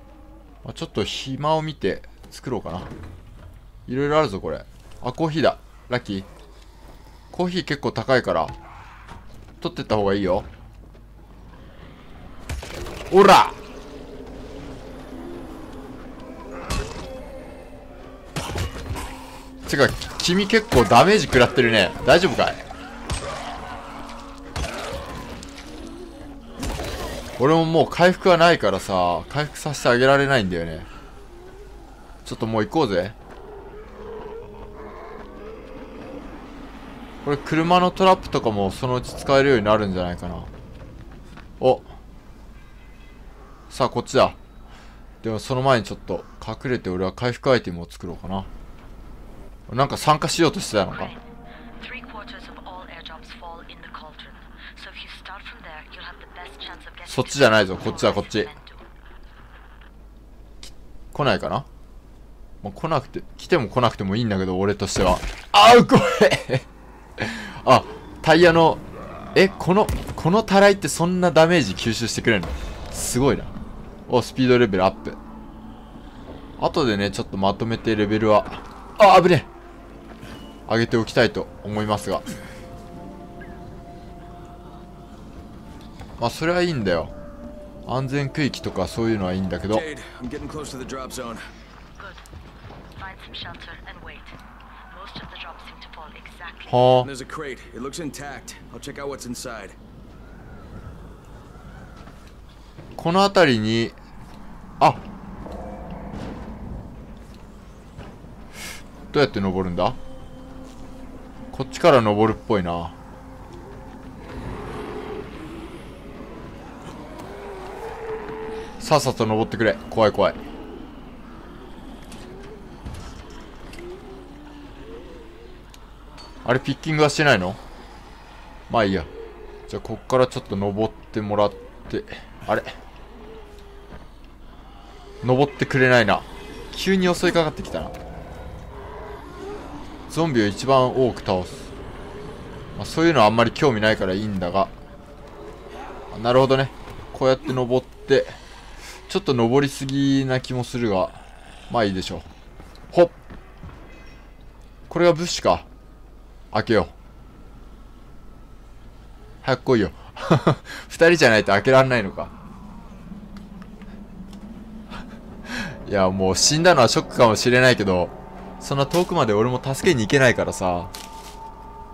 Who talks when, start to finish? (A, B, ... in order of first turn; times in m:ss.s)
0:00.6-0:02.9 A
0:03.9-0:06.3 A
0:07.3-0:08.6 A
0:09.6-0:10.5 A
0:13.1-0:13.6 A
0:19.6-0:22.6 A
0:27.4-0:30.9 A
0:32.2-0:33.2 A
0:37.2-0:40.5 A
0:41.6-0:41.9 A
0:43.7-0:44.4 A
0:45.2-0:48.5 A
0:49.7-0:51.1 A
0:50.8-0:51.2 B
0:51.8-0:58.8 B
0:57.0-0:58.5 A
1:00.6-1:01.7 A
1:02.6-1:06.6 A
1:07.2-1:08.8 A
1:09.3-1:13.5 A
1:14.1-1:15.2 A
1:16.6-1:19.5 A
1:20.7-1:22.2 A
1:26.2-1:27.1 A
1:27.8-1:29.8 A
1:29.7-1:31.4 C
1:33.0-1:34.4 B
1:34.9-1:36.8 B
1:36.7-1:37.1 A
1:37.0-1:39.8 C
1:43.0-1:44.0 A
1:49.1-1:50.0 A
1:51.5-1:53.0 A
1:58.8-2:00.4 A
2:06.4-2:07.6 A
2:08.7-2:09.1 A
2:09.7-2:12.7 A
2:15.2-2:17.9 A
2:20.1-2:21.7 A
2:22.8-2:24.7 A
2:26.1-2:28.4 A
2:29.1-2:32.2 A
2:32.9-2:33.2 A
2:34.9-2:35.7 A
2:36.5-2:36.9 A
2:39.4-2:42.3 A
2:45.5-2:50.9 A